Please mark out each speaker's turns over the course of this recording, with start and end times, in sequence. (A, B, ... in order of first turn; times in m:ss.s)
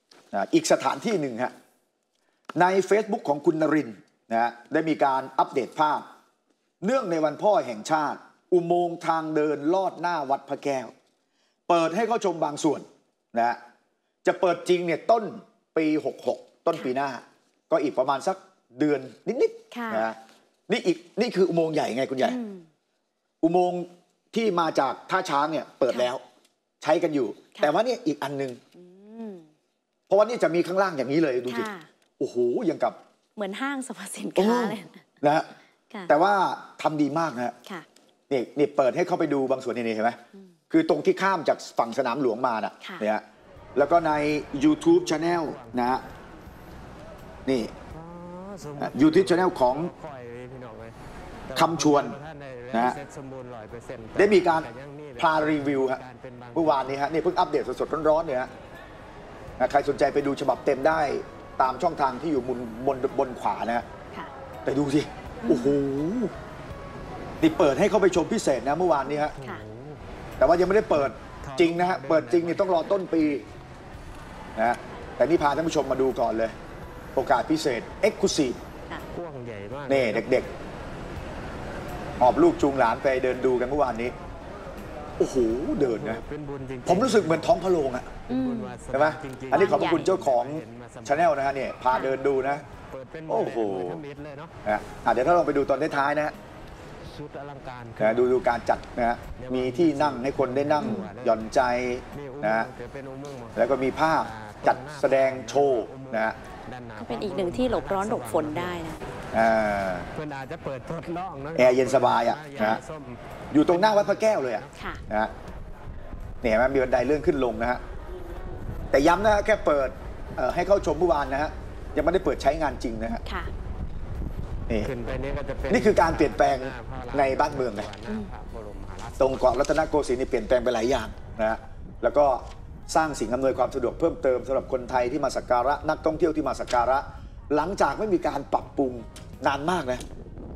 0:00.3-0:01.5 A
0:02.6-0:06.0 A
0:06.8-0:10.9 A
0:11.7-0:13.6 A
0:14.2-0:20.2 A
0:19.7-0:20.1 B
0:20.7-0:22.4 A
0:22.2-0:22.7 B
0:23.4-0:26.2 A
0:26.8-0:28.6 A
0:28.8-0:29.4 B
0:30.1-0:33.0 A
0:31.5-0:31.9 B
0:33.4-0:35.0 B
0:34.4-0:35.5 A
0:36.1-0:37.6 A
0:38.3-0:40.2 A
0:40.7-0:43.2 A
0:43.8-0:46.0 A
0:44.8-0:46.0 C
0:47.5-0:47.7 A
0:47.9-0:51.0 C
0:48.8-0:49.9 A
0:51.5-0:57.1 C
0:51.5-0:52.2 A
0:52.7-0:53.0 A
0:54.2-0:56.0 A
0:56.6-0:58.5 A
0:59.6-1:03.8 A
1:04.6-1:06.3 A
1:05.4-1:05.8 B
1:07.4-1:09.3 A
1:09.4-1:10.0 C
1:09.4-1:09.6 B
1:10.4-1:13.4 A
1:11.4-1:13.1 C
1:14.6-1:16.5 A
1:17.2-1:18.6 A
1:19.1-1:20.4 C
1:19.9-1:20.5 A
1:22.2-1:24.1 A
1:25.2-1:26.2 A
1:25.8-1:27.5 C
1:26.8-1:28.1 A
1:28.3-1:28.8 B
1:28.3-1:31.4 C
1:28.9-1:32.6 A
1:29.5-1:30.1 B
1:32.8-1:34.6 C
1:33.3-1:34.0 A
1:34.6-1:36.3 A
1:37.0-1:38.4 C
1:38.0-1:42.7 A
1:39.4-1:41.4 C
1:40.8-1:41.1 B
1:42.1-1:48.8 C
1:43.6-1:46.4 A
1:47.0-1:49.0 B
1:49.3-1:50.1 A
1:50.1-1:54.8 C
1:51.6-1:52.8 A
1:53.5-1:55.3 A
1:54.8-1:55.0 B
1:56.4-1:57.8 A
1:58.9-2:03.2 A
2:03.2-2:03.5 B
2:04.8-2:09.6 C
2:05.7-2:07.9 A
2:09.2-2:20.0 A